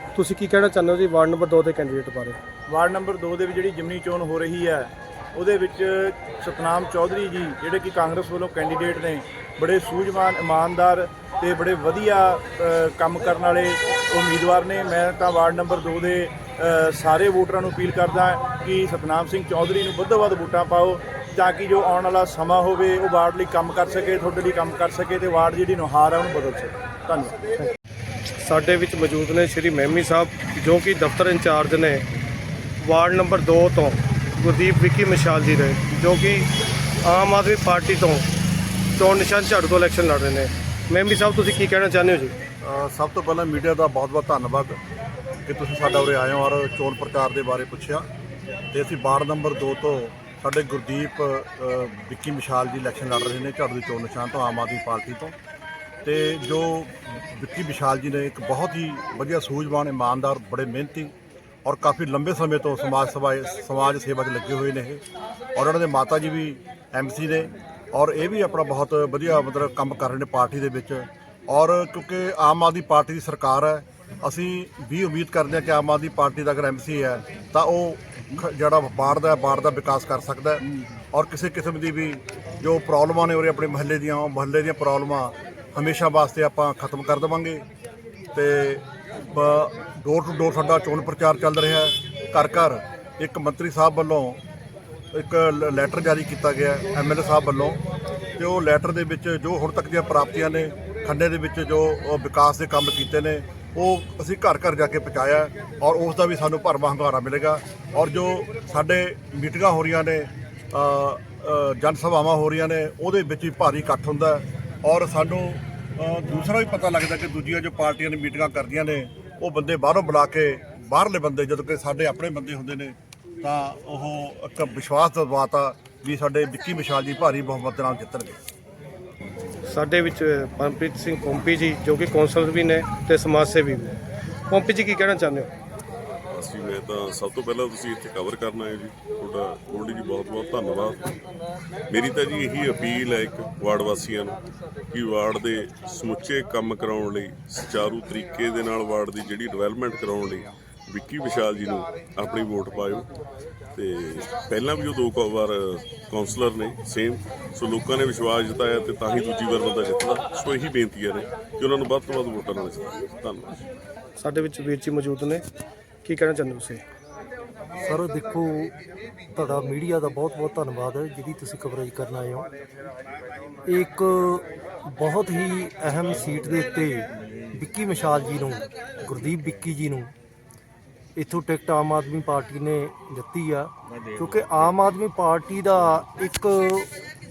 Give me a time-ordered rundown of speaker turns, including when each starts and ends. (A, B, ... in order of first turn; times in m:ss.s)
0:00.1-0:02.4 A
0:02.7-0:27.4 B
0:28.4-0:32.0 A
0:32.8-0:36.5 A
0:37.0-0:38.2 A
0:39.0-0:42.3 A
0:42.6-0:44.8 C
0:45.4-0:48.0 C
0:48.7-0:55.3 C
0:56.0-1:01.1 C
1:01.6-1:05.0 C
1:05.6-1:20.6 C
1:21.1-1:27.6 C
1:28.3-1:34.4 C
1:35.1-1:37.8 C
1:38.4-2:08.4 C
2:09.7-2:14.0 A
2:14.5-2:15.5 A
2:16.3-2:21.0 D
2:21.9-2:24.4 D
2:24.9-2:33.0 D
2:33.8-2:35.6 D
2:36.1-2:43.5 D
2:44.2-2:45.4 A
2:46.0-2:46.8 A
2:47.8-2:48.7 E
2:49.3-2:52.5 E
2:53.7-3:00.1 E
3:01.2-3:06.9 E